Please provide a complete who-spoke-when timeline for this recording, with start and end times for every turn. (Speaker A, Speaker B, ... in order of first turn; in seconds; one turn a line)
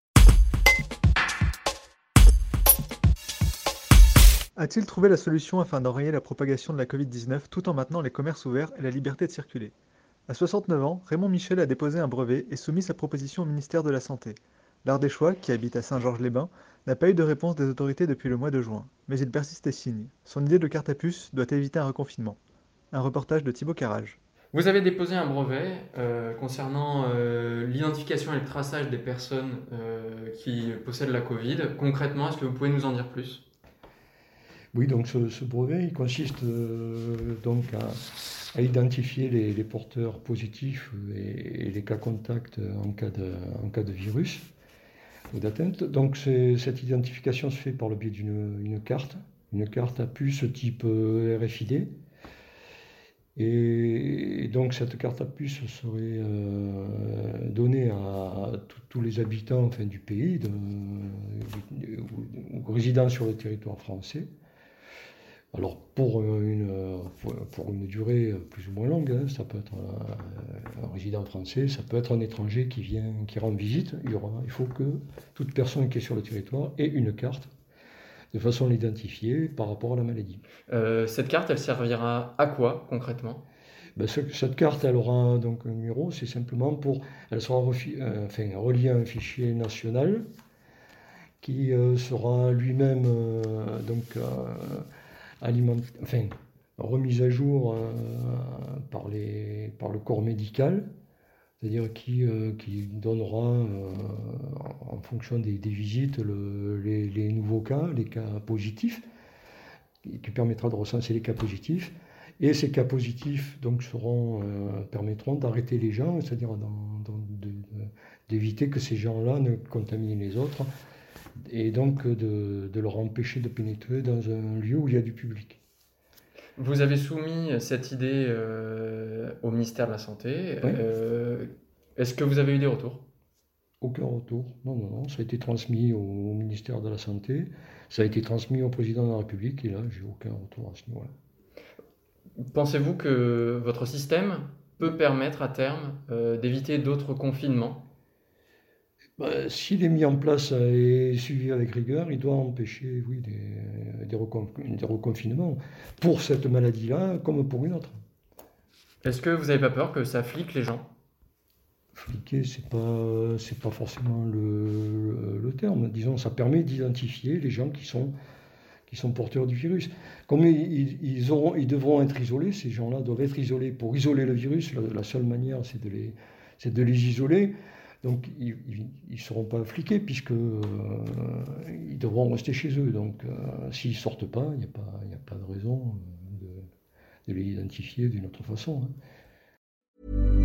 Speaker A: 4.6-9.7
Speaker A: 10.3-22.4
Speaker A: 22.9-24.2
Speaker B: 24.5-33.4
Speaker C: 34.7-38.0
Speaker C: 38.5-44.5
Speaker C: 45.3-51.9
Speaker C: 53.4-64.3
Speaker C: 65.5-77.5
Speaker C: 78.3-80.4
Speaker B: 80.7-83.4
Speaker C: 84.0-90.2
Speaker C: 91.4-94.9
Speaker C: 95.4-100.9
Speaker C: 101.6-109.0
Speaker C: 110.0-120.7
Speaker C: 121.4-125.6
Speaker B: 126.6-133.1
Speaker C: 133.8-141.1
Speaker B: 142.5-147.8
Speaker C: 149.2-158.0
Speaker B: 159.0-160.9
Speaker C: 161.9-168.1
Speaker C: 168.9-186.7
Speaker C: 187.2-188.9